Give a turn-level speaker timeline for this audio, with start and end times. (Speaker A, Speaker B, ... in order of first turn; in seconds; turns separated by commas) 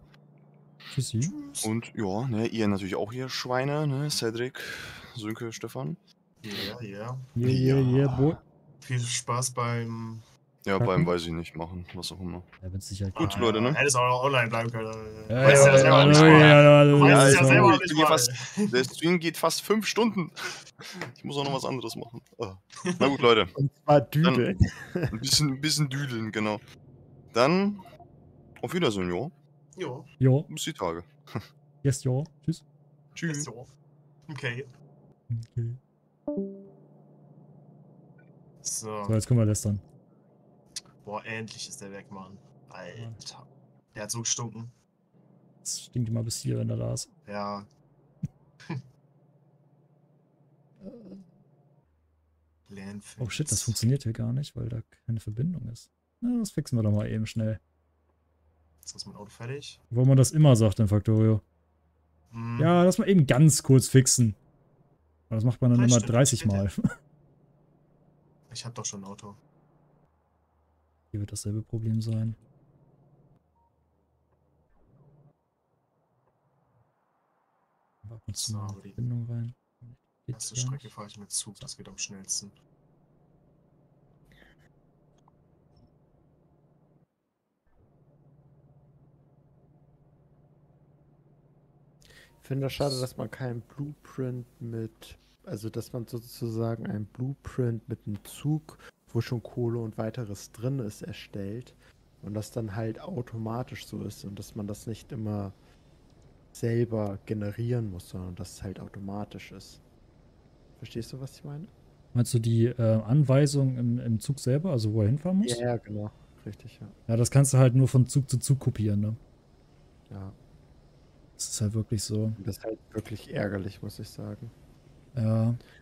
Speaker A: 0.9-1.3, Speaker B: 1.2-1.7, Speaker C: 1.6-6.0, Speaker B: 6.4-7.3, Speaker A: 7.4-8.4, Speaker C: 7.4-8.4, Speaker B: 8.8-10.2, Speaker C: 10.7-12.5, Speaker A: 10.8-11.1, Speaker A: 12.6-13.5, Speaker B: 13.2-18.9, Speaker C: 13.2-13.8, Speaker A: 15.3-17.8, Speaker C: 15.4-23.5, Speaker B: 22.8-23.2, Speaker D: 23.6-25.3, Speaker C: 25.1-26.6, Speaker C: 27.3-27.8, Speaker C: 28.6-29.3, Speaker B: 29.8-30.1, Speaker A: 30.2-30.5, Speaker C: 30.5-31.5, Speaker A: 31.8-32.6, Speaker C: 33.1-33.5, Speaker B: 33.3-33.7, Speaker B: 34.3-34.7, Speaker A: 35.3-35.8, Speaker B: 38.6-39.2, Speaker A: 39.1-39.8, Speaker B: 41.0-44.7, Speaker A: 45.6-47.1, Speaker B: 47.3-47.7, Speaker A: 50.8-51.3, Speaker B: 52.7-53.8, Speaker A: 53.2-57.6, Speaker B: 58.9-59.8, Speaker A: 59.9-61.4, Speaker B: 62.3-62.8, Speaker A: 62.6-64.4, Speaker A: 65.3-66.8, Speaker B: 65.7-66.7, Speaker B: 68.5-69.4, Speaker A: 71.1-72.4, Speaker A: 78.0-80.9, Speaker B: 78.4-79.0, Speaker B: 80.3-82.5, Speaker D: 92.4-105.6, Speaker D: 106.5-109.8, Speaker D: 110.8-111.7, Speaker A: 112.1-115.6, Speaker D: 115.4-117.0, Speaker A: 117.1-119.2, Speaker D: 120.1-120.4, Speaker A: 121.4-122.4, Speaker D: 122.4-124.5, Speaker A: 125.2-125.6